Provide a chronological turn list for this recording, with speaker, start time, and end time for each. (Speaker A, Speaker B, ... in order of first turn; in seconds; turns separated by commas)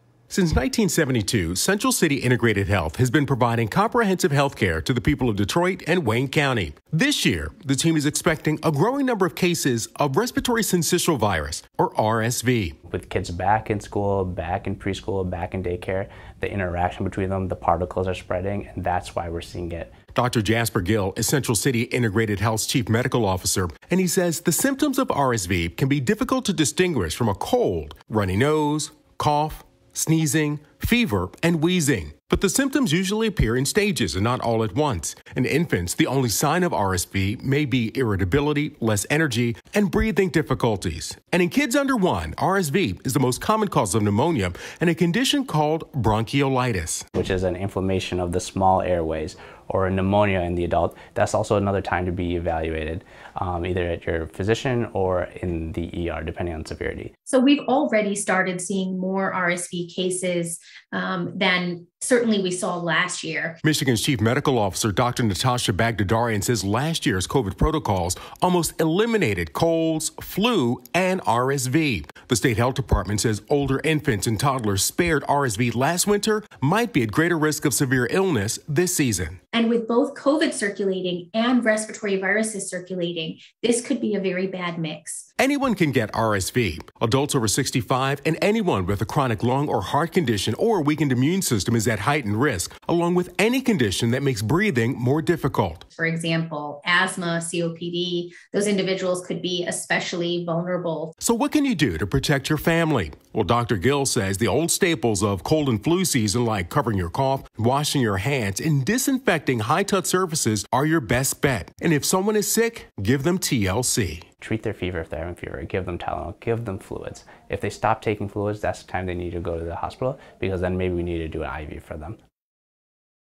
Speaker A: 0.3-12.8, Speaker B: 12.9-19.9, Speaker A: 20.1-47.1, Speaker B: 47.1-57.1, Speaker C: 57.3-63.6, Speaker A: 63.6-79.4, Speaker C: 79.5-85.2, Speaker A: 85.4-95.8, Speaker C: 96.0-101.1, Speaker A: 101.2-114.2, Speaker B: 114.4-122.2